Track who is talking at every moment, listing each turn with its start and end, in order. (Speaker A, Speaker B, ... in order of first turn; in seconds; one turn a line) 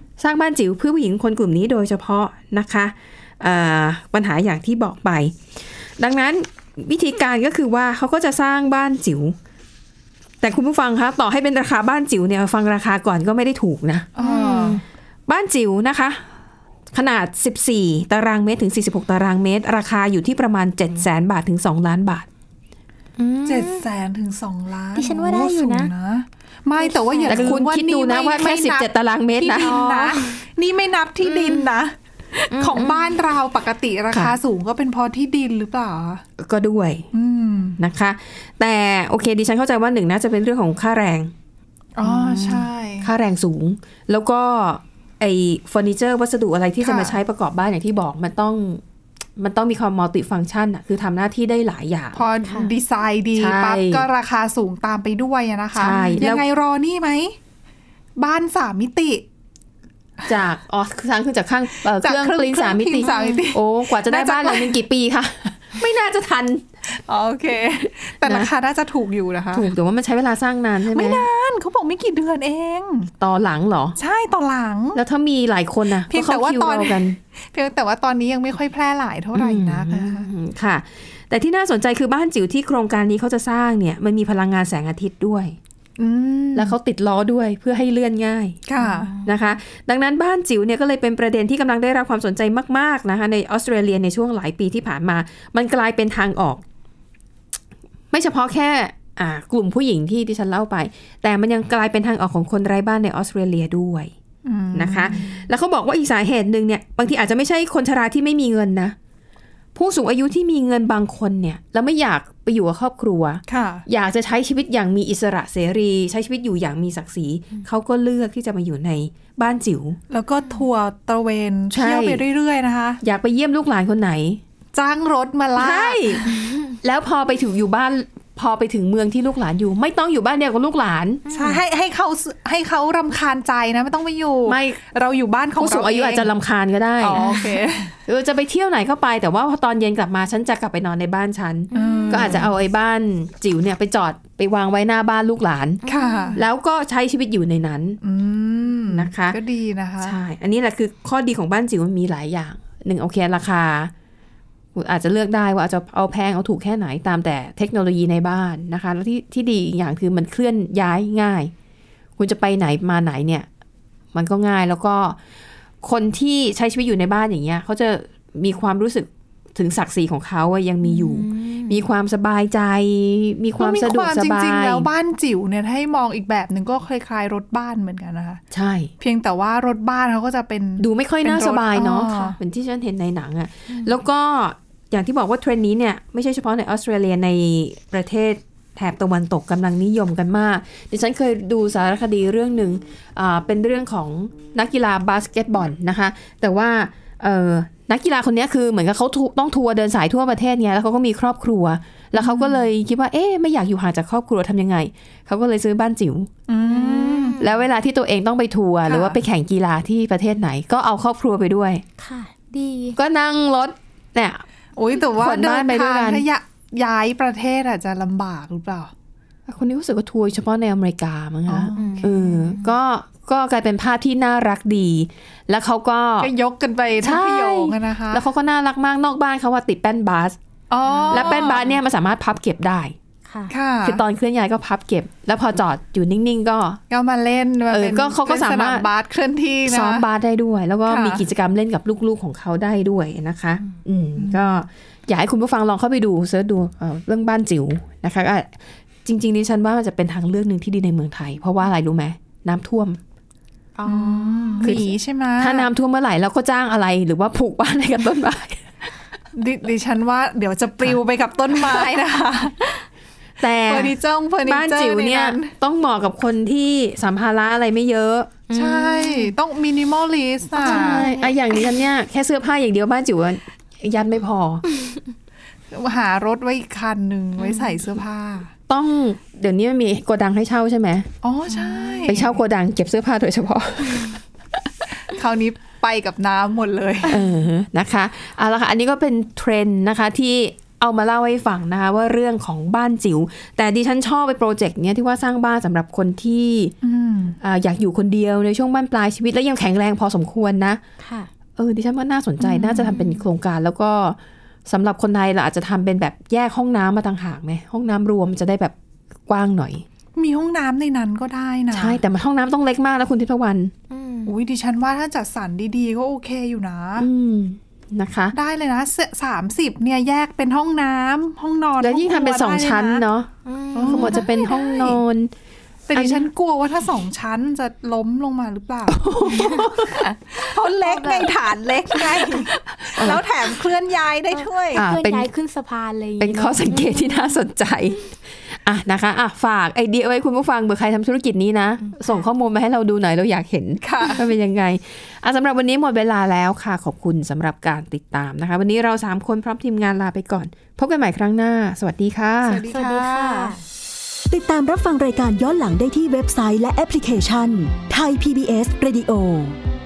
Speaker A: 0.2-5.4
Speaker A: 6.0-9.4
Speaker A: 10.4-14.1
Speaker B: 14.2-14.8
Speaker C: 14.2-14.8
Speaker A: 15.3-16.2
Speaker A: 16.9-22.3
Speaker C: 23.2-23.8
Speaker B: 23.4-36.2
Speaker C: 24.9-25.9
Speaker C: 26.8-27.6
Speaker A: 27.3-29.8
Speaker C: 29.6-30.4
Speaker C: 31.2-31.7
Speaker C: 32.5-33.1
Speaker A: 34.1-34.4
Speaker A: 36.4-37.1
Speaker B: 37.1-37.8
Speaker A: 37.8-41.3
Speaker B: 42.0-43.1
Speaker A: 42.0-48.8
Speaker B: 46.8-47.1
Speaker A: 49.4-52.2
Speaker B: 52.1-57.4
Speaker C: 52.4-52.7
Speaker A: 53.4-54.1
Speaker A: 55.7-56.4
Speaker C: 55.9-56.2
Speaker B: 58.2-59.2
Speaker A: 60.2-66.6
Speaker B: 62.0-64.8
Speaker C: 63.0-63.4
Speaker B: 66.9-69.7
Speaker A: 68.2-68.5
Speaker A: 69.5-71.3
Speaker B: 70.9-73.1
Speaker A: 73.2-74.0
Speaker B: 74.0-75.0
Speaker A: 74.9-77.2
Speaker B: 76.0-80.3
Speaker A: 79.3-85.6
Speaker B: 86.0-86.7
Speaker A: 86.5-88.6
Speaker B: 88.7-89.1
Speaker C: 88.8-89.3
Speaker A: 89.2-96.6
Speaker A: 98.1-104.1
Speaker B: 104.4-105.4
Speaker A: 104.7-108.9
Speaker A: 109.7-120.0
Speaker B: 113.5-113.8
Speaker B: 120.1-123.0
Speaker A: 121.7-122.2
Speaker A: 123.0-124.4
Speaker B: 124.7-126.2
Speaker A: 125.5-126.2
Speaker C: 126.3-126.7
Speaker A: 126.8-131.2
Speaker C: 131.2-131.6
Speaker B: 131.3-136.3
Speaker A: 134.4-134.8
Speaker A: 135.6-137.4
Speaker B: 137.0-137.9
Speaker C: 137.2-137.6
Speaker A: 138.1-145.8
Speaker C: 141.7-142.5
Speaker B: 141.7-142.5
Speaker C: 145.8-146.4
Speaker B: 145.9-146.4
Speaker A: 146.3-148.0
Speaker B: 148.0-150.2
Speaker A: 148.9-149.4
Speaker A: 150.0-153.9
Speaker A: 154.7-161.5
Speaker A: 162.2-163.5
Speaker A: 164.1-165.2
Speaker A: 165.8-174.9
Speaker C: 170.8-171.8
Speaker B: 173.6-178.4
Speaker A: 178.5-178.9
Speaker B: 179.0-182.4
Speaker A: 180.8-206.3
Speaker C: 183.7-183.9
Speaker B: 202.1-202.6
Speaker B: 206.5-207.4
Speaker C: 206.6-207.6
Speaker A: 207.4-211.8
Speaker B: 208.9-209.2
Speaker C: 212.0-213.0
Speaker A: 212.9-214.4
Speaker B: 214.8-218.9
Speaker A: 215.2-216.2
Speaker A: 219.5-226.3
Speaker B: 221.5-222.4
Speaker C: 221.8-222.7
Speaker B: 226.2-228.2
Speaker A: 227.0-230.4
Speaker B: 230.7-231.7
Speaker C: 230.9-231.6
Speaker A: 231.1-232.9
Speaker C: 233.3-233.5
Speaker B: 233.5-234.0
Speaker A: 233.8-236.8
Speaker B: 236.9-240.1
Speaker A: 237.7-238.9
Speaker A: 239.7-248.5
Speaker B: 240.9-241.2
Speaker B: 244.2-244.5
Speaker A: 249.0-253.0
Speaker C: 253.8-254.7
Speaker B: 253.8-255.7
Speaker A: 254.6-258.9
Speaker B: 259.3-262.8
Speaker A: 263.4-268.4
Speaker B: 263.6-265.5
Speaker C: 268.5-269.3
Speaker B: 268.5-271.1
Speaker A: 270.6-274.6
Speaker C: 270.6-271.3
Speaker B: 275.7-278.5
Speaker C: 277.4-277.8
Speaker A: 278.7-281.1
Speaker B: 281.2-282.4
Speaker C: 281.5-282.2
Speaker A: 282.1-284.6
Speaker B: 285.1-287.2
Speaker A: 287.1-296.7
Speaker B: 296.8-297.4
Speaker A: 297.4-300.8
Speaker C: 301.0-301.3
Speaker A: 301.6-308.7
Speaker B: 302.5-302.9
Speaker C: 302.9-303.2
Speaker A: 309.3-309.8
Speaker B: 310.1-312.0
Speaker A: 311.7-313.7
Speaker C: 313.9-314.3
Speaker B: 314.2-317.1
Speaker A: 317.0-318.4
Speaker B: 318.3-323.0
Speaker A: 321.8-323.3
Speaker C: 323.4-324.7
Speaker B: 323.7-324.3
Speaker A: 323.8-325.3
Speaker B: 325.9-329.1
Speaker A: 325.9-326.3
Speaker A: 328.9-330.1
Speaker C: 329.3-329.8
Speaker B: 329.8-334.9
Speaker A: 332.9-333.2
Speaker C: 334.3-337.4
Speaker A: 334.7-335.3
Speaker A: 336.2-352.6
Speaker C: 341.8-342.2
Speaker B: 343.8-344.2
Speaker B: 352.4-353.5
Speaker C: 352.7-353.6
Speaker D: 354.3-359.6